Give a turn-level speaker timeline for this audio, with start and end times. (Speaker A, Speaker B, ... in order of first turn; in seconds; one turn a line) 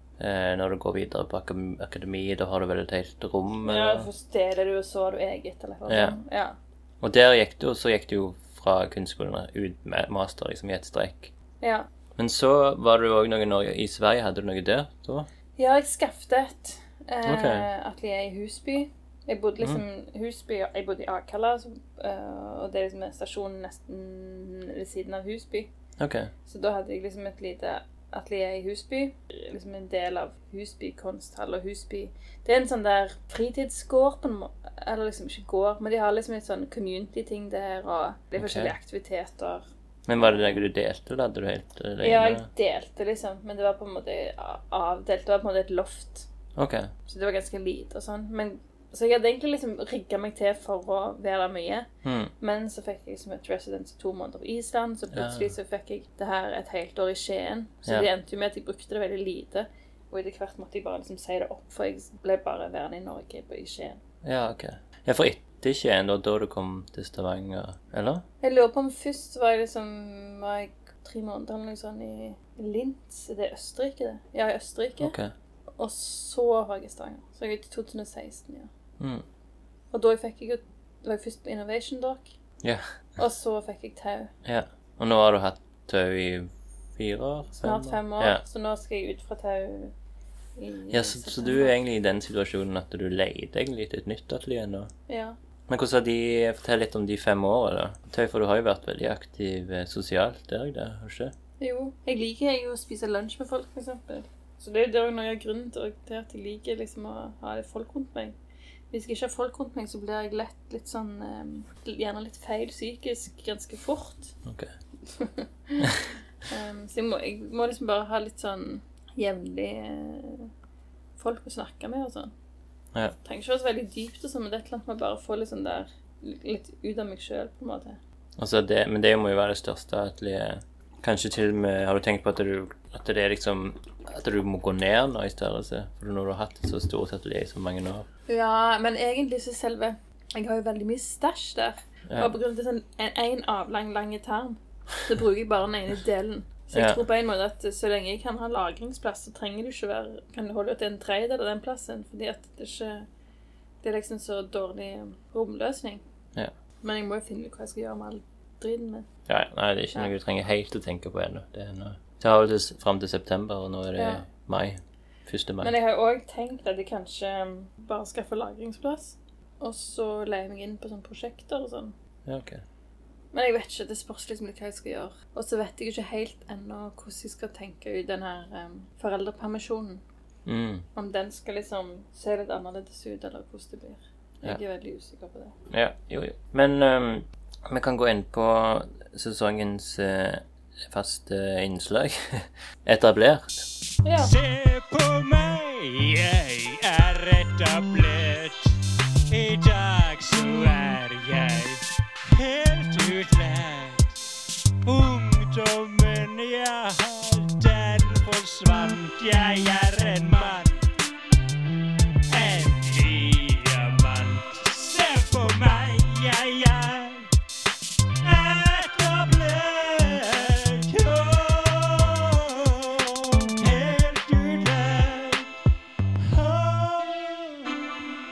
Speaker A: 0.2-4.1
Speaker B: 3.6-6.5
Speaker A: 5.9-6.2
Speaker A: 7.0-11.3
Speaker B: 11.6-11.9
Speaker A: 12.2-15.3
Speaker B: 15.6-25.7
Speaker A: 17.2-17.7
Speaker A: 26.0-26.3
Speaker B: 26.4-39.6
Speaker A: 38.4-38.7
Speaker A: 40.1-42.5
Speaker B: 42.0-46.3
Speaker A: 46.6-46.9
Speaker B: 47.0-51.9
Speaker A: 52.0-52.3
Speaker B: 52.4-64.0
Speaker A: 55.1-55.5
Speaker A: 64.2-68.2
Speaker B: 68.4-75.2
Speaker A: 75.0-75.3
Speaker B: 75.8-78.7
Speaker B: 79.9-82.3
Speaker B: 83.2-84.3
Speaker A: 84.4-88.4
Speaker B: 87.6-89.9
Speaker B: 90.6-91.8
Speaker A: 90.9-94.9
Speaker B: 95.1-95.4
Speaker A: 95.7-101.3
Speaker B: 101.6-108.4
Speaker B: 108.9-114.3
Speaker A: 114.4-114.7
Speaker B: 115.1-120.5
Speaker B: 121.2-122.3
Speaker B: 123.2-128.0
Speaker A: 128.4-138.1
Speaker B: 138.3-153.1
Speaker A: 142.1-142.3
Speaker A: 146.7-147.0
Speaker B: 153.8-156.0
Speaker B: 156.8-159.1
Speaker A: 159.3-165.7
Speaker B: 163.9-164.2
Speaker B: 165.6-171.9
Speaker A: 172.2-172.6
Speaker B: 173.3-180.0
Speaker A: 180.4-180.9
Speaker B: 180.9-185.5
Speaker A: 185.7-193.7
Speaker B: 194.0-194.3
Speaker C: 194.2-198.8
Speaker C: 199.3-204.2
Speaker C: 204.8-210.9
Speaker C: 212.3-217.3
Speaker C: 218.2-225.5
Speaker C: 226.2-228.0